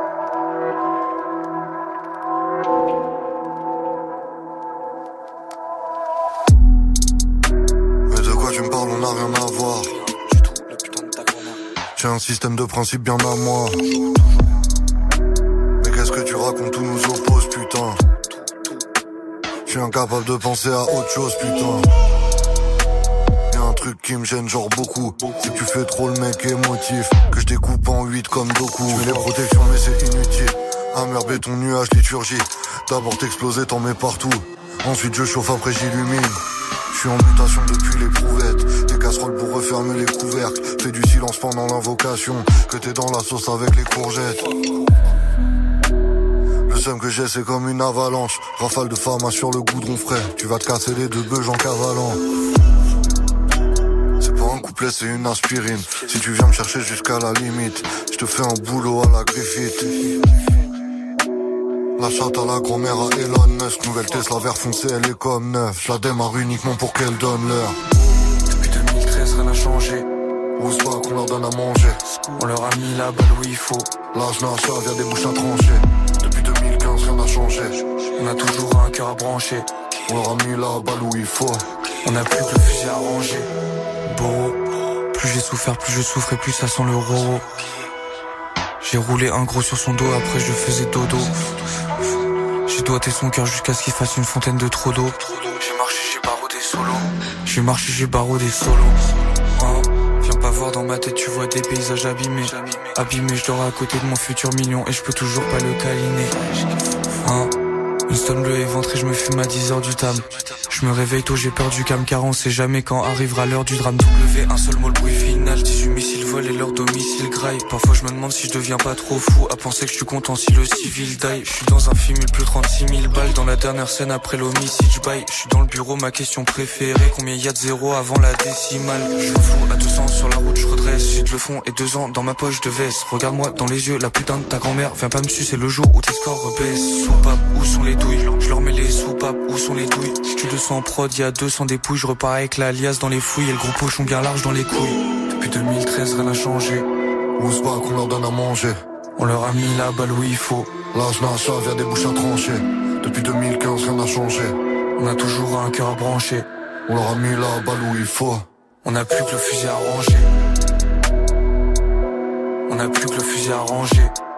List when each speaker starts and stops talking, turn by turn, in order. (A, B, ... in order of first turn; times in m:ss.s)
0:08.1-0:09.9 A
0:10.3-0:11.5 B
0:12.0-0:13.8 A
0:15.8-0:18.0 A
0:19.7-0:21.9 A
0:23.5-0:44.5 A
0:46.7-0:52.2 A
0:54.2-1:00.0 A
1:02.0-1:07.8 A
1:08.5-1:10.1 B
1:10.6-1:12.0 A
1:12.2-1:13.9 B
1:14.1-1:17.8 A
1:18.2-1:19.7 B
1:20.1-1:21.6 A
1:22.0-1:23.5 B
1:24.1-1:24.6 B
1:25.1-1:27.5 B
1:28.8-1:31.4 B
1:32.7-1:39.0 B
1:39.6-1:46.4 B
1:47.2-1:47.5 B
1:48.1-2:26.9 B
2:27.4-2:28.8 A
2:29.2-2:30.8 B
2:30.9-2:34.6 A
2:35.0-2:36.5 B
2:36.9-2:38.4 A
2:38.8-2:40.3 B
2:42.7-2:44.1 B